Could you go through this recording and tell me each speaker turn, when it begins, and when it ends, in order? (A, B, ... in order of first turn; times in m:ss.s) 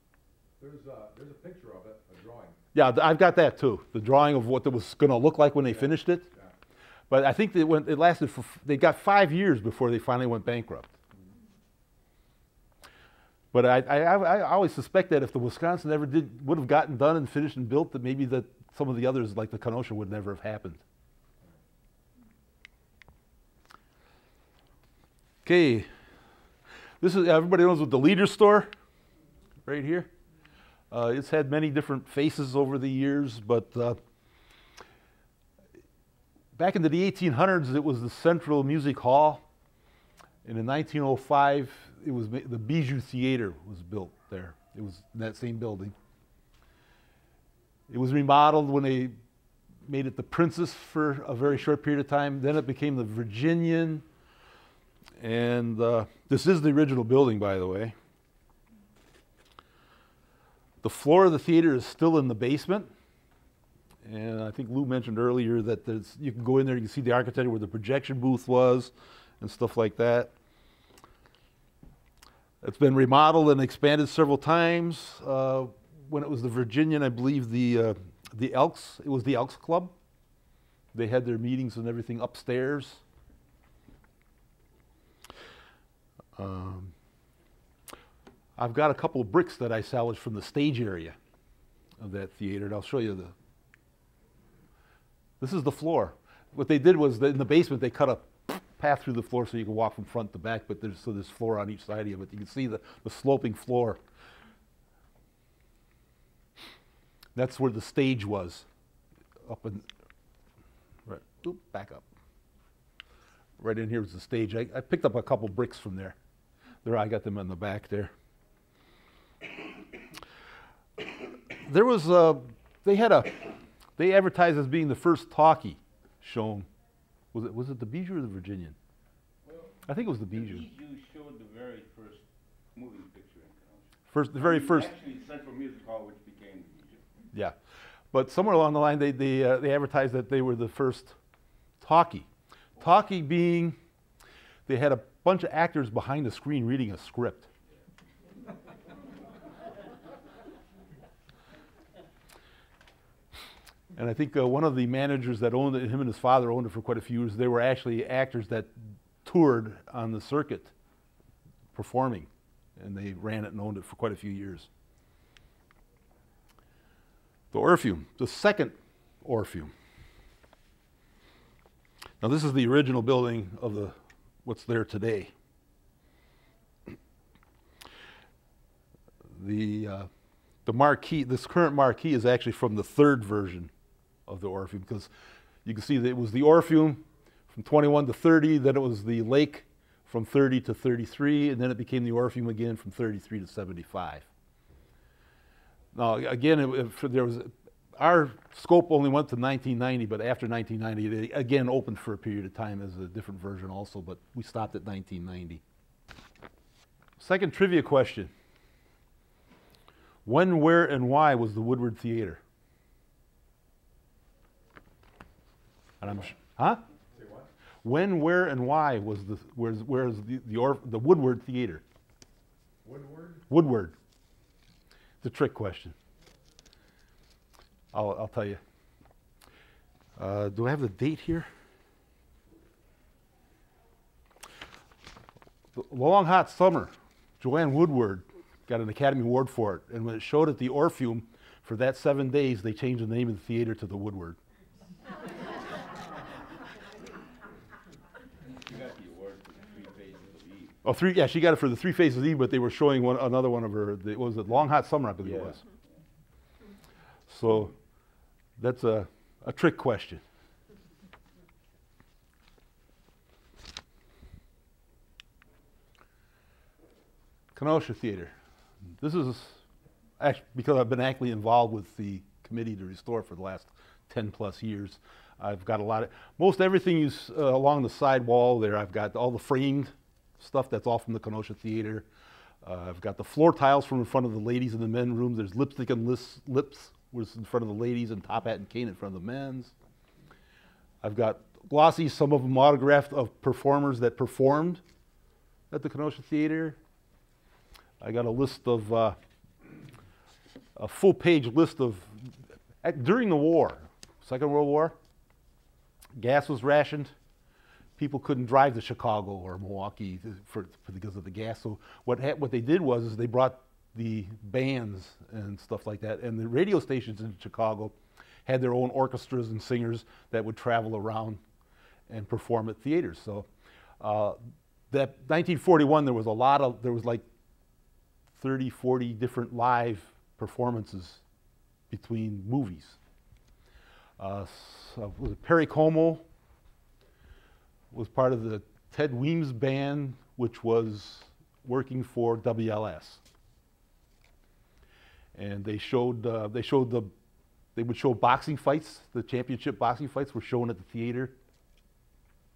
0:00.6-0:02.6 A
0:02.7-0:06.2 B
0:05.6-0:06.6 A
0:07.1-0:10.9 B
0:13.5-0:20.8 B
0:25.4-0:25.9 B
0:27.0-0:28.7 B
0:29.6-0:30.1 B
0:30.9-0:34.0 B
0:36.6-0:39.4 B
0:40.4-0:45.9 B
0:47.9-0:49.2 B
0:49.8-0:54.0 B
0:55.2-0:57.9 B
1:00.8-1:02.9 B
1:04.0-1:10.3 B
1:12.6-1:19.9 B
1:20.9-1:23.0 B
1:26.4-1:26.9 B
1:28.6-1:31.2 B
1:32.0-1:33.3 B
1:35.4-1:44.0 B
1:47.3-1:48.6 B
1:49.4-1:49.9 B
1:51.0-1:52.0 B
1:53.6-1:56.2 B
1:56.8-1:58.1 B
2:01.0-2:06.7 B
2:07.3-2:08.7 B
2:09.4-2:17.1 C
2:09.9-2:10.6 B
2:14.1-2:14.9 B
2:18.1-2:21.2 B
2:21.8-2:22.3 B
2:22.8-2:23.8 B
2:24.7-2:27.5 B
2:34.0-2:40.7 B
2:41.7-2:44.7 B
2:47.5-2:49.7 B
2:52.2-2:55.3 B
2:59.3-3:00.1 B
3:00.6-3:03.7 B
3:04.3-3:05.1 B
3:05.6-3:14.3 B
3:15.9-3:25.6 B
3:27.2-3:28.3 B
3:30.2-3:32.4 B
3:36.0-3:36.8 B
3:37.1-3:37.5 A
3:37.8-3:41.8 B
3:42.8-3:43.4 A
3:43.5-3:43.9 B
3:45.2-3:45.9 B
3:47.9-3:48.6 B
3:50.2-3:51.5 B
3:55.7-4:04.4 B
4:08.5-4:10.8 C
4:10.8-4:15.6 B
4:15.2-4:15.8 C
4:17.3-4:17.7 B
4:18.6-4:20.2 B
4:27.5-4:28.3 B
4:29.0-4:29.6 B
4:30.2-4:42.0 B
4:42.6-4:49.7 B
4:51.0-4:54.8 B
4:55.7-4:56.8 B
4:58.0-4:59.2 B
5:00.8-5:05.0 B
5:06.2-5:07.1 B
5:08.0-5:21.4 B
5:22.1-5:23.5 B
5:24.0-5:24.4 B
5:24.9-5:27.2 B
5:28.4-5:31.2 B
5:31.9-5:33.0 B
5:34.2-5:36.2 B
5:37.9-5:43.2 B
5:45.3-5:47.1 B
5:47.8-5:51.3 B